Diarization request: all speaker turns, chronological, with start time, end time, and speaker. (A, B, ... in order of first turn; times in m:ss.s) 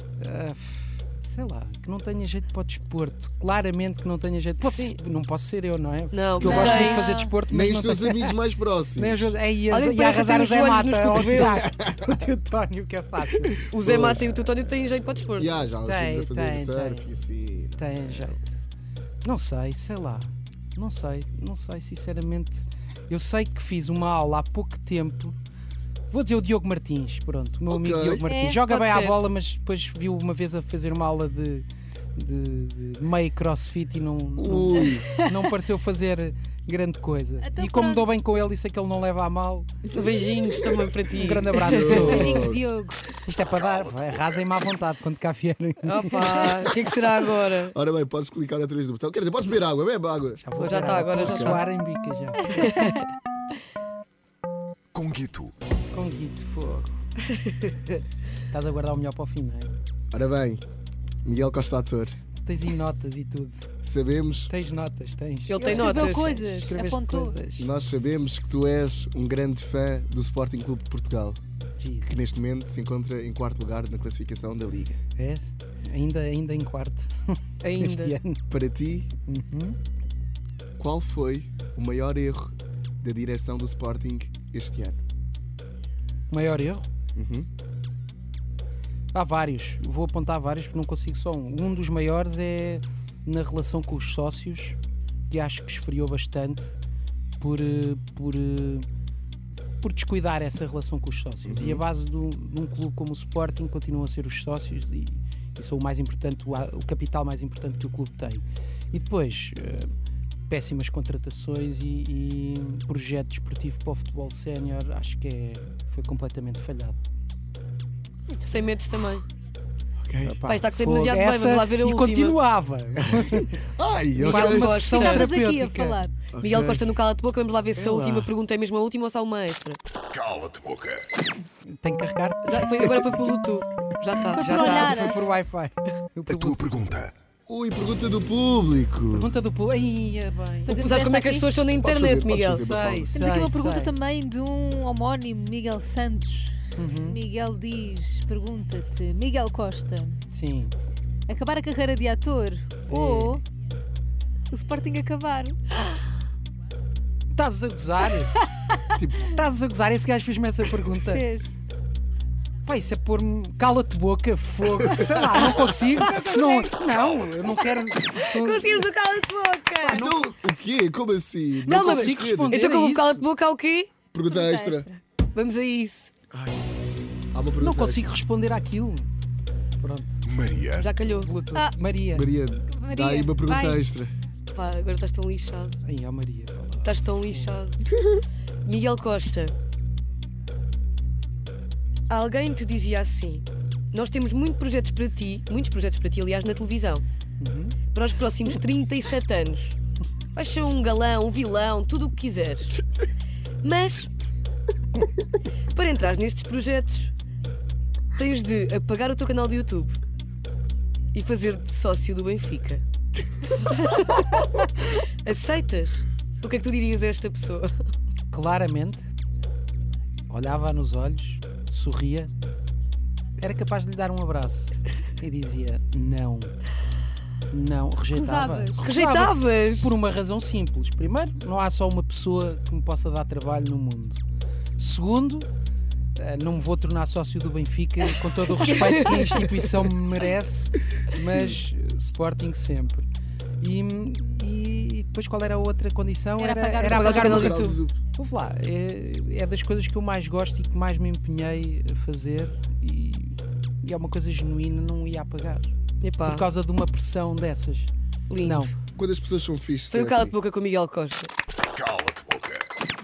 0:00.2-0:08.4 A
0:04.6-0:05.0 B
0:06.1-0:07.1 B
0:06.4-0:07.4 C
0:06.4-0:06.8 D
0:07.5-0:09.3 D
0:09.0-0:13.7 A
0:09.7-0:11.7 B
0:11.6-0:12.2 D
0:13.6-0:14.5 D
0:13.7-0:15.6 B
0:15.4-0:18.3 D
0:15.8-0:17.1 A
0:17.8-0:18.6 A
0:19.2-0:25.4 A
0:26.1-0:39.7 A
0:27.7-0:28.3 D
0:28.3-0:28.6 C
0:28.6-0:29.2 B
0:34.4-0:35.1 D
0:35.0-0:35.3 C
0:37.4-0:38.1 C
0:39.9-0:42.1 B
0:41.1-0:42.5 A
0:41.6-0:42.6 D
0:41.7-0:43.1 C
0:43.2-0:46.6 A
0:43.5-0:44.4 E
0:45.8-0:47.7 B
0:47.5-0:50.4 D
0:50.4-0:53.0 A
0:50.6-0:51.6 B
0:51.2-0:51.6 D
0:52.5-0:52.9 B
0:54.9-0:55.5 E
0:55.9-0:57.0 A
0:58.5-0:59.8 A
1:00.1-1:00.6 D
1:01.2-1:02.1 D
1:02.4-1:03.7 A
1:03.8-1:04.5 D
1:04.5-1:07.7 A
1:05.5-1:06.5 B
1:05.6-1:07.4 C
1:07.6-1:11.4 D
1:11.8-1:12.4 A
1:12.0-1:15.0 D
1:15.2-1:18.4 A
1:17.6-1:18.2 B
1:18.5-1:19.1 D
1:19.2-1:19.8 A
1:20.8-1:25.0 D
1:26.3-1:26.9 A
1:27.2-1:27.5 D
1:29.1-1:34.8 A
1:35.3-1:36.7 A
1:37.4-1:38.9 A
1:39.8-1:49.9 A
1:41.4-1:41.8 D
1:50.5-1:57.0 A
1:58.3-1:59.2 B
2:00.0-2:00.4 D
2:00.2-2:03.6 A
2:00.4-2:02.4 B
2:03.0-2:04.8 D
2:04.2-2:05.3 B
2:04.2-2:06.0 A
2:04.8-2:06.2 C
2:06.3-2:07.0 D
2:06.4-2:09.8 B
2:07.8-2:08.3 D
2:10.1-2:11.1 E
2:11.6-2:13.1 A
2:12.5-2:15.1 B
2:14.3-2:15.2 C
2:14.3-2:16.7 A
2:16.3-2:17.1 E
2:17.5-2:19.3 D
2:19.1-2:21.1 A
2:20.7-2:22.6 B
2:20.7-2:21.5 C
2:21.8-2:23.1 D
2:22.5-2:23.9 A
2:23.1-2:30.2 C
2:26.8-2:27.2 A
2:30.3-2:30.7 A
2:31.3-2:33.4 C
2:32.9-2:33.4 A
2:34.5-2:35.9 C
2:37.3-2:38.4 A
2:39.0-2:39.3 D
2:39.2-2:41.2 A
2:41.1-2:41.5 C
2:42.6-2:48.9 A
2:44.8-2:45.5 D
2:45.6-2:46.6 B
2:46.0-2:46.5 C
2:46.9-2:47.6 E
2:48.2-2:50.3 B
2:49.8-2:52.6 D
2:51.6-2:53.2 A
2:51.6-2:53.9 B
2:54.1-2:54.9 D
2:54.3-2:55.0 C
2:55.3-2:56.1 B
2:56.3-2:56.6 D
2:57.3-2:58.1 D
2:57.6-2:59.1 A
2:59.8-3:00.2 A
3:00.3-3:00.9 E
3:00.8-3:01.3 B
3:01.1-3:02.3 A
3:02.1-3:04.1 D
3:02.7-3:03.8 C
3:04.5-3:05.8 B
3:05.8-3:07.6 A
3:06.8-3:07.8 B
3:08.6-3:09.6 B
3:12.1-3:17.0 B
3:17.4-3:17.8 A
3:17.9-3:19.8 B
3:20.4-3:22.8 B
3:23.6-3:24.1 B
3:25.7-3:27.1 B
3:28.1-3:30.0 B
3:31.1-3:32.8 B
3:33.5-3:37.7 B
3:38.3-3:39.1 A
3:40.3-3:42.3 A
3:43.4-3:46.5 A
3:47.5-3:54.2 A
3:48.1-3:48.8 C
3:48.8-3:50.0 B
3:54.8-3:55.5 A
3:56.1-4:03.1 A
3:58.5-3:59.6 B
4:03.6-4:15.7 A
4:06.4-4:07.4 C
4:06.9-4:07.8 B
4:07.2-4:07.9 D
4:16.0-4:16.4 B
4:16.2-4:17.9 A
4:18.3-4:18.7 B
4:18.4-4:18.7 A
4:18.9-4:20.4 D
4:19.9-4:21.3 B
4:21.7-4:22.6 E